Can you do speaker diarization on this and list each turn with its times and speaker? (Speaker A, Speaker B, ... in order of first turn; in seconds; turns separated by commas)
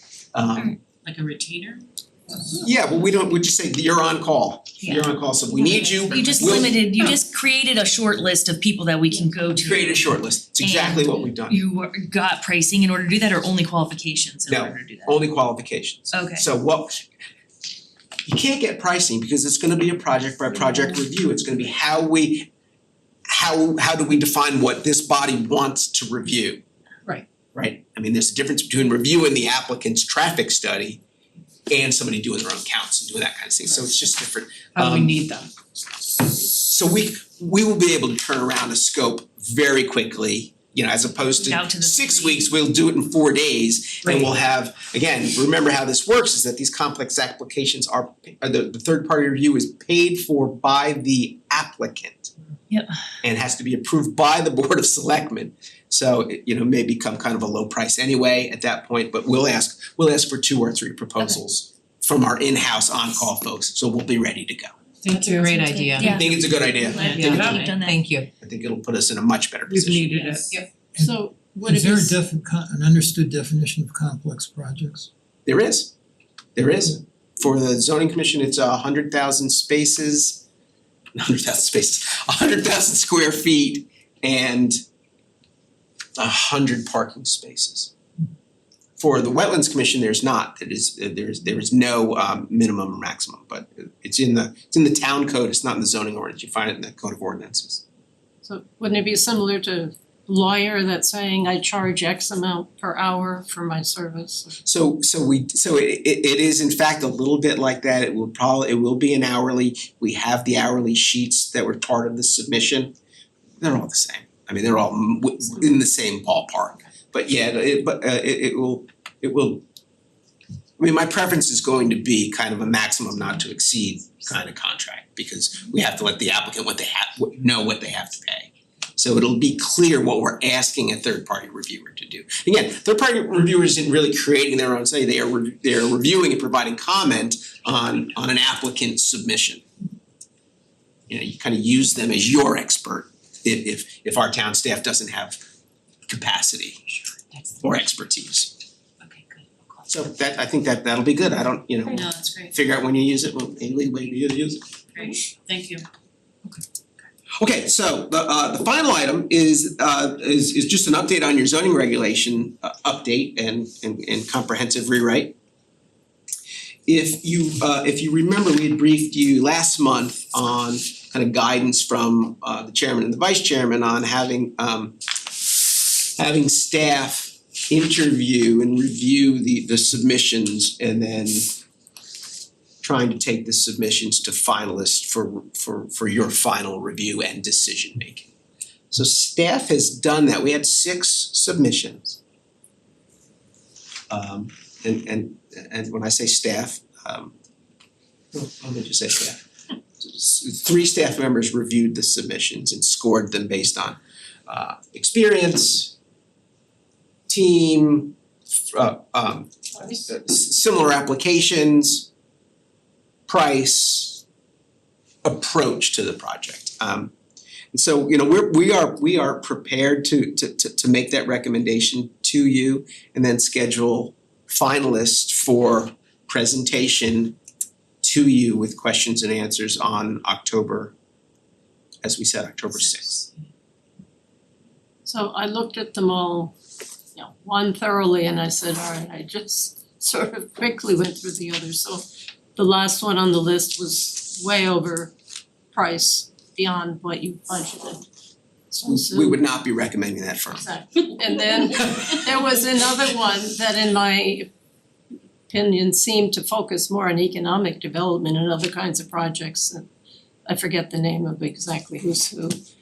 Speaker A: 0.3-0.8, Speaker B: 1.0-1.8, Speaker A: 2.6-6.8, Speaker C: 4.8-5.1, Speaker B: 5.6-6.6, Speaker C: 6.0-15.2, Speaker A: 9.6-11.6, Speaker A: 14.5-17.0, Speaker C: 16.1-16.4, Speaker A: 18.2-22.5, Speaker A: 23.3-26.6, Speaker A: 27.5-31.0, Speaker A: 31.7-35.2, Speaker B: 34.8-35.5, Speaker A: 36.2-52.3, Speaker C: 41.4-42.5, Speaker B: 44.0-44.3, Speaker A: 53.2-64.7, Speaker B: 65.0-66.2, Speaker C: 65.3-68.0, Speaker A: 66.0-67.3, Speaker D: 66.9-67.6, Speaker B: 67.0-68.2, Speaker A: 68.4-70.1, Speaker B: 69.7-70.6, Speaker D: 70.1-72.2, Speaker E: 70.9-75.1, Speaker A: 75.5-75.9, Speaker A: 76.5-80.4, Speaker A: 81.1-84.7, Speaker A: 86.2-87.9, Speaker A: 89.0-97.8, Speaker D: 98.4-104.6, Speaker A: 104.6-112.9, Speaker A: 113.6-119.6, Speaker A: 120.8-139.6, Speaker A: 141.1-145.4, Speaker A: 146.1-146.8, Speaker A: 147.6-148.5, Speaker B: 149.1-149.7, Speaker A: 149.9-154.7, Speaker B: 152.0-152.5, Speaker B: 154.9-155.8, Speaker A: 157.4-165.3, Speaker A: 166.9-175.0, Speaker A: 176.2-181.5, Speaker A: 182.8-188.3, Speaker A: 188.9-192.2, Speaker A: 194.1-197.3, Speaker A: 198.3-199.4, Speaker A: 200.0-205.9, Speaker A: 207.3-208.2, Speaker A: 208.7-212.1, Speaker D: 209.8-210.0, Speaker A: 213.3-214.2, Speaker A: 215.2-217.1, Speaker A: 217.7-227.4, Speaker A: 228.0-230.9, Speaker A: 232.0-233.2, Speaker D: 235.1-236.5, Speaker D: 237.2-245.1, Speaker D: 245.7-248.0, Speaker D: 248.7-249.4, Speaker A: 248.8-250.6, Speaker D: 250.5-254.5, Speaker D: 255.5-259.9, Speaker D: 260.4-262.6